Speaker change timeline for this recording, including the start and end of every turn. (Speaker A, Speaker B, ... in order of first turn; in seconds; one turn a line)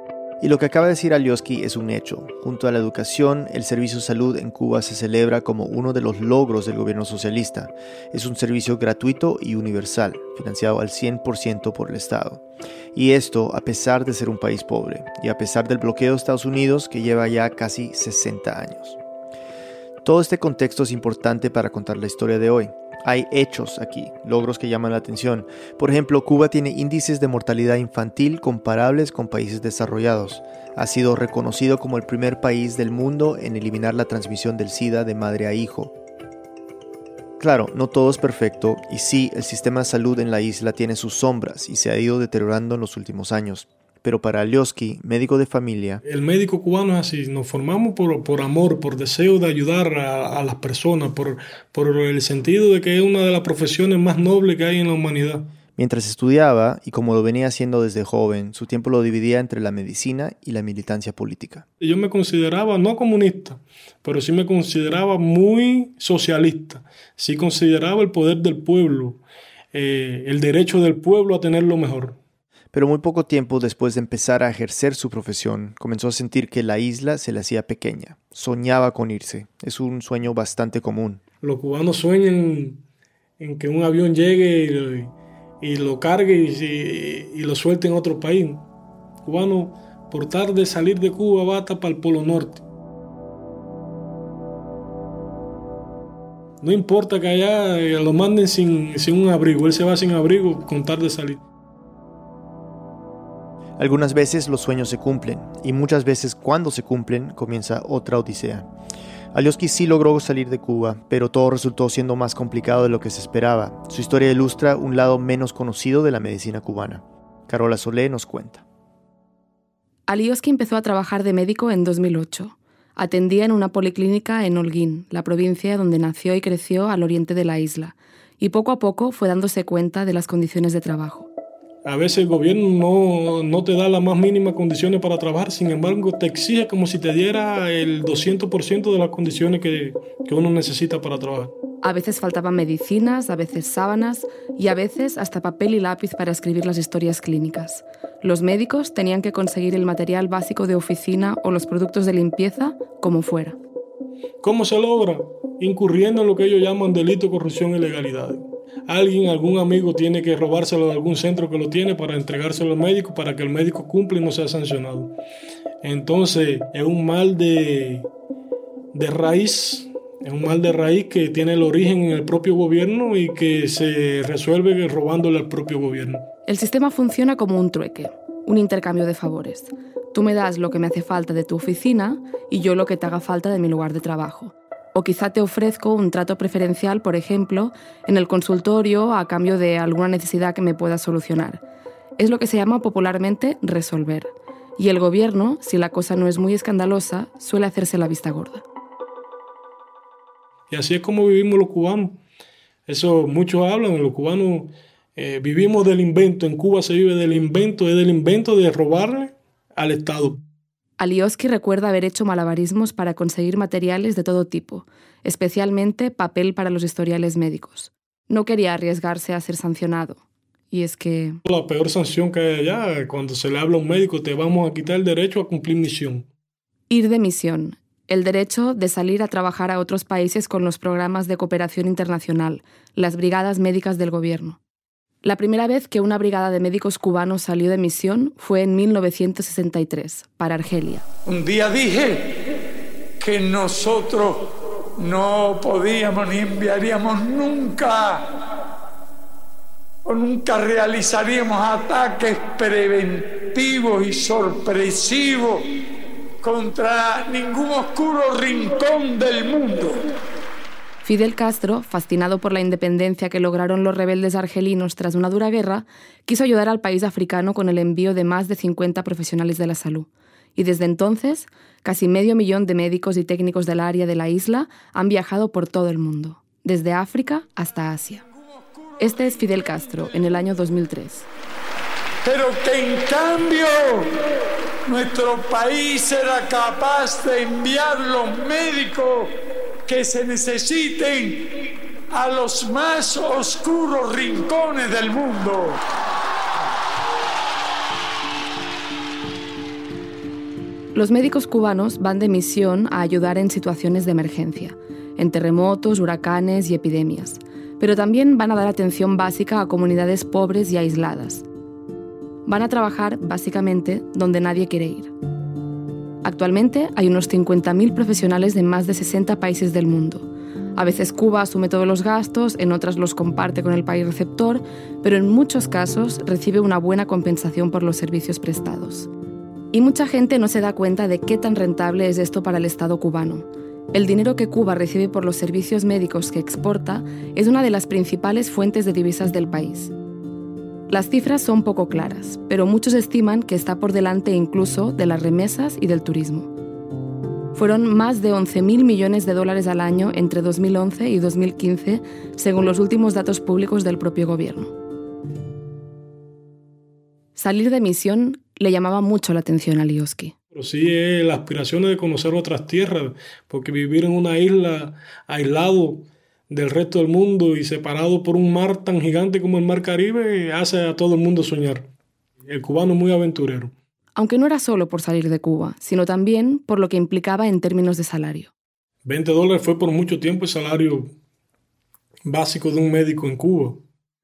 Speaker A: 0.4-19.0
Speaker A: 20.0-35.9
Speaker A: 37.4-46.0
Speaker B: 46.0-55.5
Speaker A: 55.8-61.6
Speaker B: 61.8-69.2
Speaker B: 69.7-72.2
Speaker A: 72.7-81.2
Speaker B: 81.4-82.8
Speaker B: 83.4-88.6
Speaker B: 89.2-92.6
Speaker B: 96.6-101.4
Speaker A: 103.8-108.7
Speaker A: 109.3-118.6
Speaker C: 120.1-131.3
Speaker B: 131.8-141.5
Speaker C: 141.8-153.6
Speaker B: 154.4-165.1
Speaker B: 165.8-168.1
Speaker B: 168.9-176.2
Speaker C: 176.4-191.6
Speaker C: 192.2-198.6
Speaker B: 200.7-202.2
Speaker B: 202.9-210.4
Speaker C: 211.0-221.4
Speaker B: 221.4-226.3
Speaker C: 226.9-234.6
Speaker C: 235.2-241.0
Speaker D: 241.2-242.3
Speaker D: 243.2-248.3
Speaker D: 250.0-255.7
Speaker D: 256.4-260.0
Speaker C: 261.0-278.2
Speaker C: 279.0-281.3
Speaker D: 282.2-284.1
Speaker D: 284.9-289.3
Speaker D: 289.8-291.5
Speaker D: 292.1-295.8
Speaker C: 300.9-311.4
Speaker C: 312.4-315.1
Speaker C: 316.2-329.1
Speaker C: 329.7-339.9
Speaker C: 340.9-346.5
Speaker C: 347.5-354.7
Speaker C: 357.4-360.3
Speaker B: 360.5-371.9
Speaker B: 372.5-373.7
Speaker C: 374.1-378.5
Speaker B: 379.0-381.1
Speaker B: 382.2-383.8